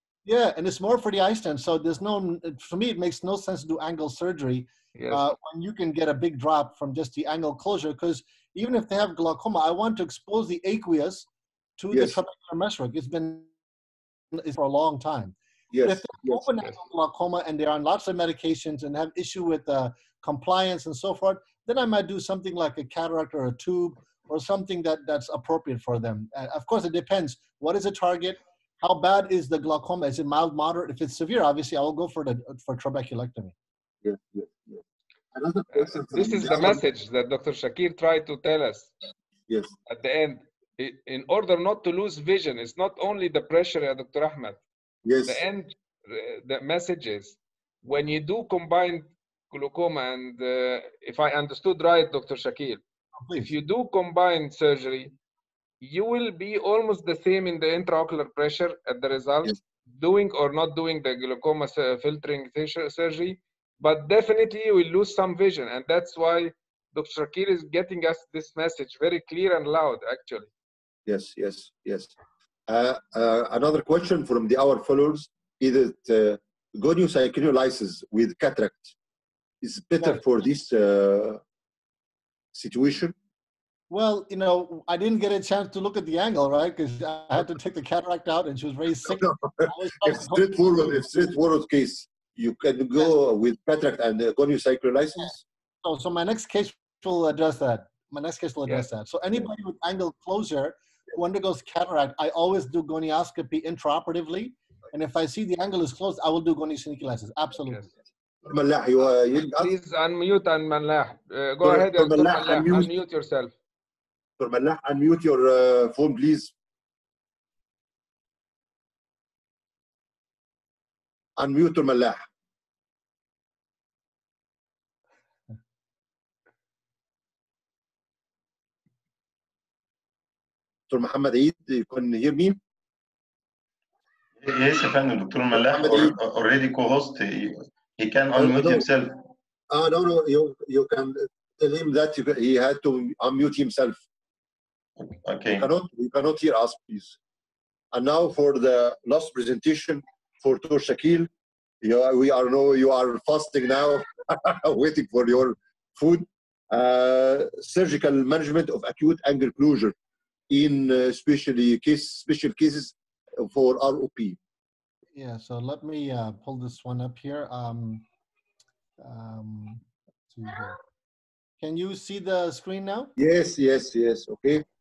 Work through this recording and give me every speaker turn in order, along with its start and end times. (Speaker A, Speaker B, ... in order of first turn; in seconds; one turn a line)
Speaker A: 0.2-11.3
Speaker B: 5.0-5.2
Speaker A: 11.8-13.5
Speaker C: 11.9-12.2
Speaker A: 14.3-33.5
Speaker C: 15.7-16.5
Speaker C: 34.0-34.8
Speaker C: 35.3-36.9
Speaker B: 35.7-38.9
Speaker B: 39.9-44.6
Speaker C: 45.0-45.4
Speaker B: 45.2-52.8
Speaker A: 53.2-53.5
Speaker B: 53.4-55.1
Speaker B: 55.8-70.5
Speaker C: 71.1-72.1
Speaker C: 72.7-78.9
Speaker C: 79.6-81.4
Speaker C: 82.5-83.1
Speaker A: 83.9-91.1
Speaker C: 89.1-95.4
Speaker A: 95.8-107.9
Speaker C: 108.5-109.7
Speaker B: 109.5-113.5
Speaker C: 111.6-113.0
Speaker C: 114.4-116.5
Speaker C: 121.4-122.2
Speaker C: 130.9-132.6
Speaker D: 134.4-139.1
Speaker C: 135.5-136.1
Speaker C: 138.3-138.8
Speaker C: 139.7-144.0
Speaker D: 145.0-145.7
Speaker C: 145.6-147.2
Speaker C: 147.9-151.3
Speaker C: 151.8-159.9
Speaker C: 160.5-164.4
Speaker A: 165.1-168.0
Speaker A: 169.0-170.8
Speaker A: 171.6-173.1
Speaker C: 173.2-174.6